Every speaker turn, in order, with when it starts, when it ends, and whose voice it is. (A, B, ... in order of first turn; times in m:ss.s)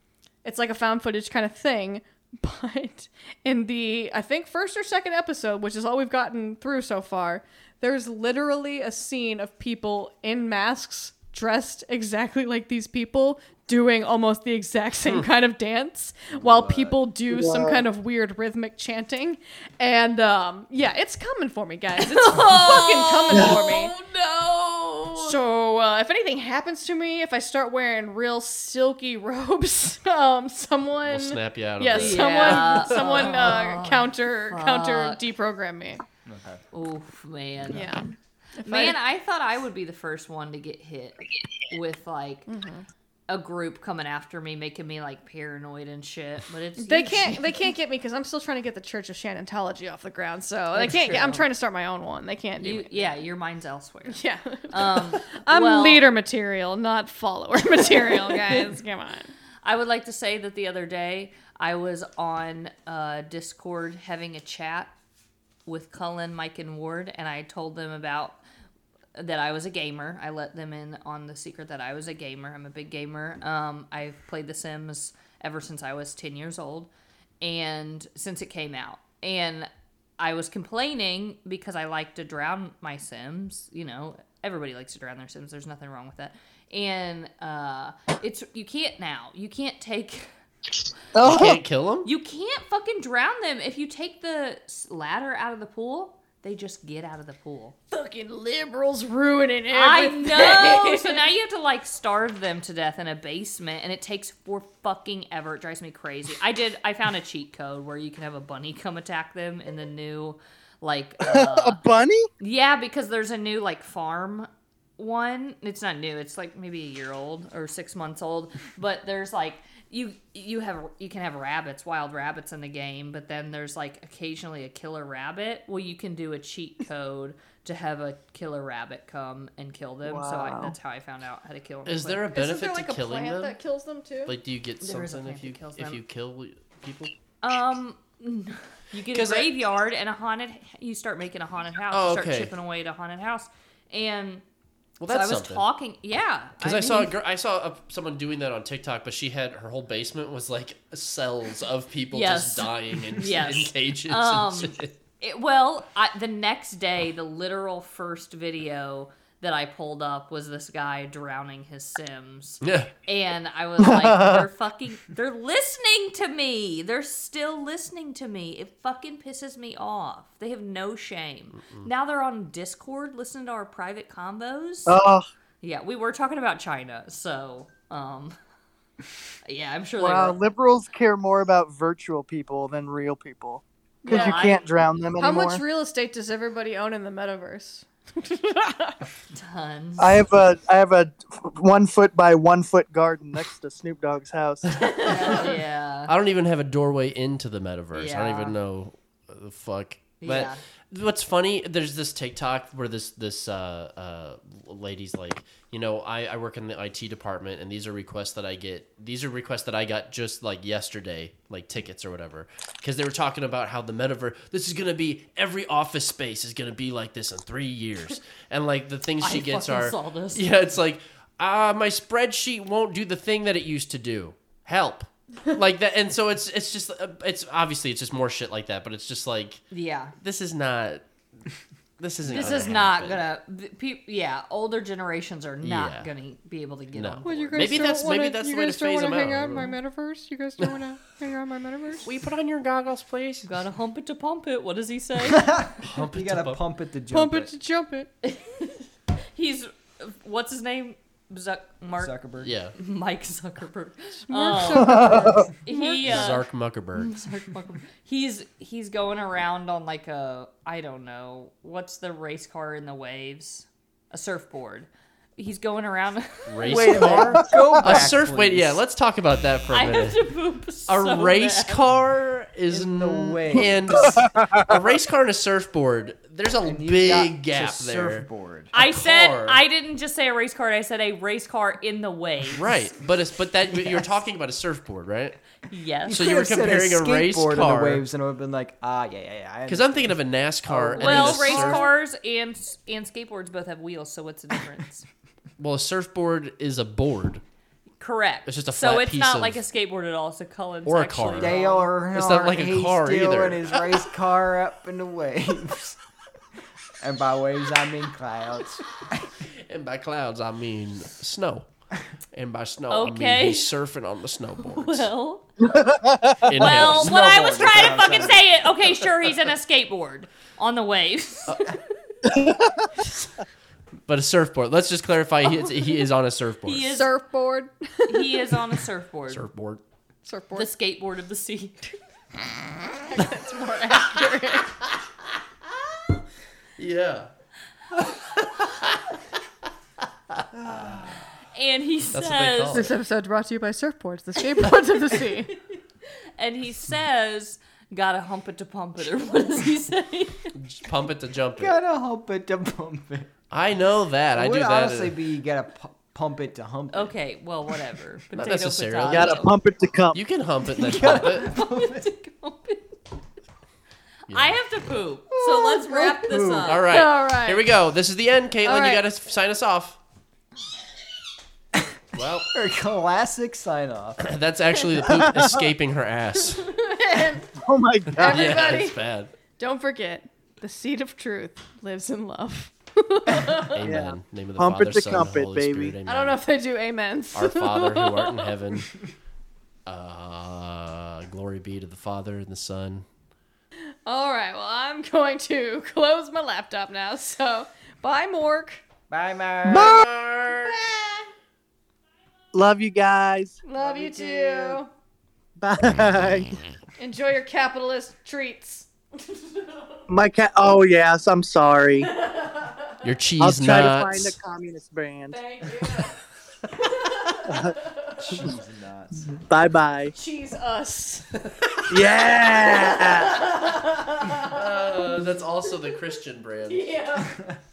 0:00.4-0:24.0 A
0:16.3-0:17.0 B
0:17.3-0:17.8 C
0:22.0-0:25.4 D
0:25.2-0:36.0 A
0:31.0-0:33.3 E
0:31.9-0:35.2 D
0:36.3-0:36.6 B
0:36.7-0:37.9 D
0:37.7-0:39.0 A
0:38.6-0:42.5 D
0:42.5-0:42.8 A
0:43.3-0:47.4 D
0:46.8-0:53.2 A
0:50.7-0:51.5 D
0:52.6-0:56.1 D
0:54.1-0:59.3 A
0:57.8-0:58.7 D
0:59.6-1:04.9 D
1:05.7-1:08.4 D
1:09.2-1:16.9 D
1:17.4-1:30.3 D
1:31.1-1:31.6 C
1:31.2-1:32.1 E
1:32.0-1:37.8 D
1:37.9-1:41.3 A
1:39.7-1:51.8 D
1:51.2-1:52.3 C
1:52.4-2:12.3 D
2:10.0-2:10.8 C
2:11.9-2:13.6 E
2:12.3-2:14.3 A
2:14.3-2:17.1 E
2:14.8-2:16.0 D
2:17.4-2:24.4 D
2:19.1-2:19.6 E
2:21.9-2:22.5 E
2:25.0-2:25.6 E
2:25.1-2:27.1 D
2:26.6-2:34.9 E
2:32.1-2:55.0 D
2:42.6-2:42.9 E
2:43.8-2:44.5 C
2:51.6-2:51.9 E
2:54.9-2:55.2 C
2:55.6-2:58.4 D
2:59.4-3:00.4 D
3:00.0-3:05.6 C
3:04.0-3:04.6 A
3:04.1-3:04.8 D
3:05.2-3:09.0 A
3:09.4-3:10.3 D
3:10.0-3:15.4 C
3:14.8-3:15.5 A
3:15.0-3:16.1 D
3:16.1-3:49.6 E
3:17.9-3:18.6 D
3:20.2-3:20.6 D
3:39.2-3:40.4 D
3:49.7-3:50.2 D
3:50.2-3:51.1 E
3:52.0-3:53.2 E
3:52.3-3:58.0 D
3:52.3-3:52.6 B
3:55.6-3:56.1 E
3:56.9-3:59.8 E
3:57.2-4:02.1 A
4:02.0-4:03.5 E
4:03.4-4:05.6 D
4:05.2-4:07.5 B
4:05.8-4:06.6 E
4:07.1-4:08.1 A
4:08.2-4:12.2 D
4:12.0-4:12.5 B
4:12.4-4:12.8 E
4:12.8-4:26.8 D
4:14.3-4:16.3 A
4:14.7-4:15.5 C
4:16.0-4:17.1 E
4:26.5-4:30.2 E
4:26.6-4:28.8 B
4:27.0-4:27.8 C
4:29.7-4:31.8 D
4:30.9-4:39.6 E
4:32.7-4:34.1 B
4:34.1-4:34.6 C
4:36.6-4:38.7 B
4:38.7-4:42.6 D
4:42.5-4:45.4 E
4:45.7-4:46.4 D
4:46.1-4:48.0 E
4:46.1-4:51.9 B
4:49.7-4:51.9 E
4:51.0-4:55.1 D
4:55.6-4:57.4 E
4:58.0-5:01.9 D
4:58.5-4:59.6 E
5:00.9-5:01.6 E
5:01.3-5:06.0 B
5:02.1-5:04.0 E
5:07.0-5:09.3 B
5:09.7-5:11.7 E
5:12.3-5:15.1 E
5:12.9-5:13.7 D
5:14.6-5:15.5 D
5:15.6-5:16.5 C
5:16.5-5:17.1 E
5:16.6-5:21.8 D
5:16.7-5:18.9 B
5:22.2-5:22.9 C
5:24.1-5:26.9 E
5:26.6-5:27.1 D
5:26.9-5:28.5 A
5:28.1-5:29.5 D
5:29.3-5:29.8 E
5:30.2-5:30.7 A
5:30.6-5:31.8 D
5:33.0-5:34.8 A
5:36.8-5:37.3 E
5:38.7-5:39.0 E
5:40.6-5:41.1 B
5:40.7-5:42.9 D
5:42.1-5:43.0 E
5:42.7-5:45.5 A
5:44.5-5:45.8 D
5:46.4-5:50.5 D
5:50.6-5:51.8 E
5:51.6-5:53.3 B
5:53.5-5:55.2 E
5:54.3-5:57.2 B
5:56.9-5:59.5 D
5:58.3-5:59.4 E
5:59.1-6:00.2 C
6:00.1-6:01.5 E
6:00.8-6:02.1 B
6:00.8-6:03.0 D
6:04.3-6:04.6 E
6:04.3-6:06.9 D
6:05.3-6:06.8 B
6:06.7-6:10.0 E
6:06.9-6:07.7 A
6:08.6-6:09.0 A
6:12.1-6:12.5 E
6:12.5-6:14.3 B
6:14.2-6:16.7 E
6:15.1-6:15.5 C
6:16.5-6:17.5 A
6:17.6-6:18.6 C
6:18.2-6:19.3 E
6:18.2-6:19.0 A
6:19.6-6:23.8 A
6:23.8-6:26.4 E
6:23.8-6:26.0 C
6:26.0-6:28.5 A
6:27.3-6:29.0 E
6:29.9-6:33.0 E
6:34.1-6:38.8 A
6:39.1-6:40.0 B
6:39.7-6:40.1 C
6:39.7-6:40.8 E
6:42.5-6:43.6 C
6:43.6-6:44.9 A
6:43.8-6:44.8 B
6:45.6-6:46.6 C
6:47.0-6:50.0 A
6:50.1-6:52.1 C
6:52.0-6:53.0 A
6:53.0-6:54.4 E
6:53.4-6:55.4 C
6:55.3-6:56.2 A
6:56.8-6:58.3 A
6:57.5-6:57.8 C
6:58.3-6:59.2 B
6:59.2-7:00.1 C
7:00.2-7:01.4 A
7:01.9-7:03.5 C
7:02.5-7:06.0 A
7:04.4-7:06.9 E
7:06.7-7:07.4 A
7:07.2-7:07.6 B